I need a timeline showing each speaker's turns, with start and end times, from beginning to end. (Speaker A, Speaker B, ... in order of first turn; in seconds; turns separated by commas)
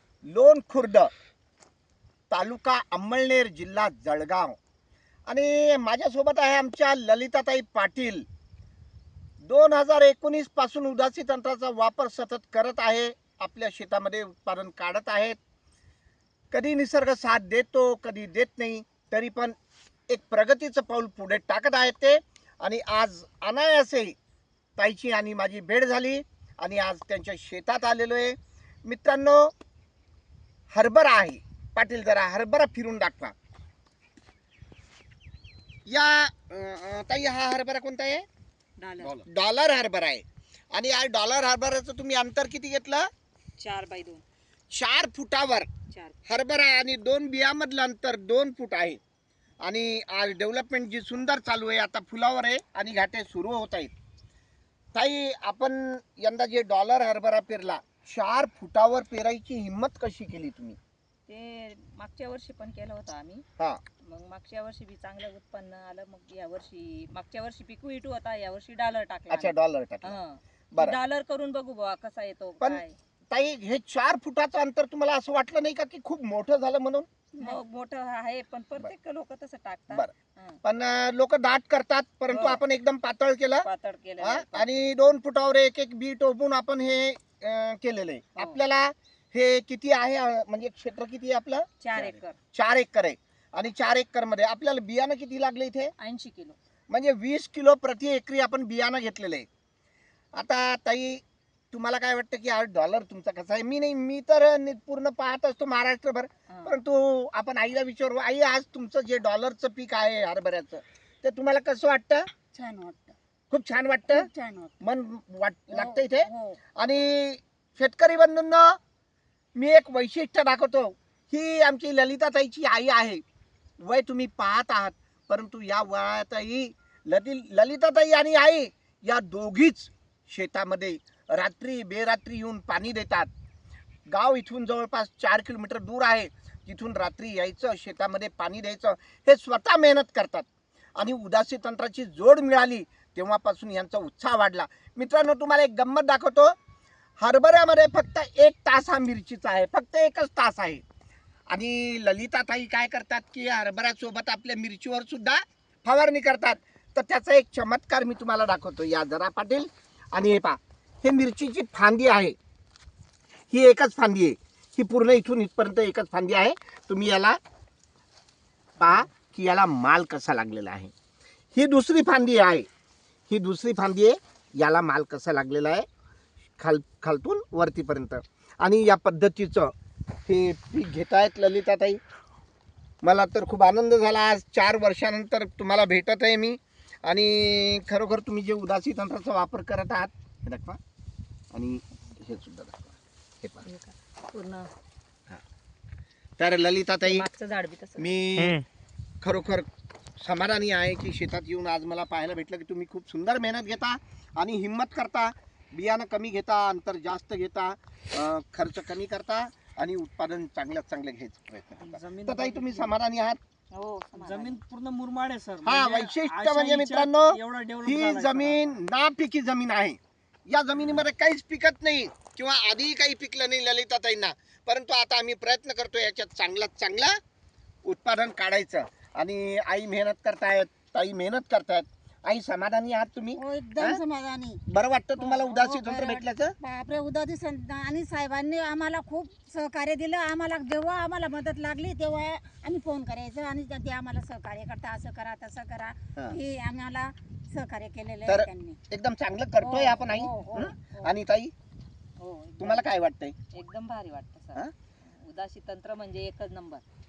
Speaker A: 0.2-1.1, Speaker A: 2.3-4.6, Speaker A: 5.3-8.3, Speaker A: 9.4-15.4, Speaker A: 16.5-19.6, Speaker A: 20.1-24.2, Speaker A: 24.8-29.5, Speaker A: 30.7-33.3, Speaker A: 35.9-38.3, Speaker B: 38.8-39.2, Speaker A: 39.0-43.1, Speaker B: 43.6-44.2, Speaker A: 44.7-45.7, Speaker B: 45.9-46.2, Speaker A: 46.3-49.0, Speaker A: 49.6-53.9, Speaker A: 54.9-60.8, Speaker B: 61.3-63.5, Speaker B: 64.0-73.0, Speaker A: 69.3-70.2, Speaker A: 72.6-77.1, Speaker B: 77.4-80.6, Speaker A: 80.6-83.7, Speaker B: 82.3-82.6, Speaker B: 83.6-84.8, Speaker A: 84.2-95.9, Speaker B: 91.8-92.4, Speaker B: 96.0-96.6, Speaker A: 96.9-99.5, Speaker A: 100.3-112.3, Speaker B: 106.5-106.8, Speaker C: 112.5-113.2, Speaker A: 113.5-114.3, Speaker C: 114.1-114.8, Speaker A: 114.8-118.8, Speaker C: 115.7-116.6, Speaker A: 119.5-123.2, Speaker A: 123.8-133.3, Speaker A: 134.1-146.6, Speaker A: 147.2-150.8, Speaker A: 151.5-162.4, Speaker A: 163.5-167.4, Speaker A: 168.8-170.9, Speaker A: 171.5-172.7, Speaker A: 173.3-175.9, Speaker A: 176.6-179.7, Speaker A: 180.3-182.0, Speaker A: 183.0-190.8, Speaker A: 191.5-193.7, Speaker B: 193.6-194.7, Speaker A: 196.4-197.3, Speaker B: 197.1-198.1, Speaker A: 198.0-198.6, Speaker A: 199.2-199.7, Speaker A: 200.2-213.4, Speaker D: 211.8-212.9, Speaker B: 213.7-214.6, Speaker D: 214.1-218.8, Speaker A: 215.6-227.2, Speaker A: 227.8-234.0, Speaker C: 233.4-234.6, Speaker A: 234.7-236.6, Speaker C: 235.2-248.8, Speaker A: 248.3-251.5, Speaker C: 249.6-251.2, Speaker B: 252.2-252.9, Speaker A: 252.6-253.4, Speaker B: 253.5-256.8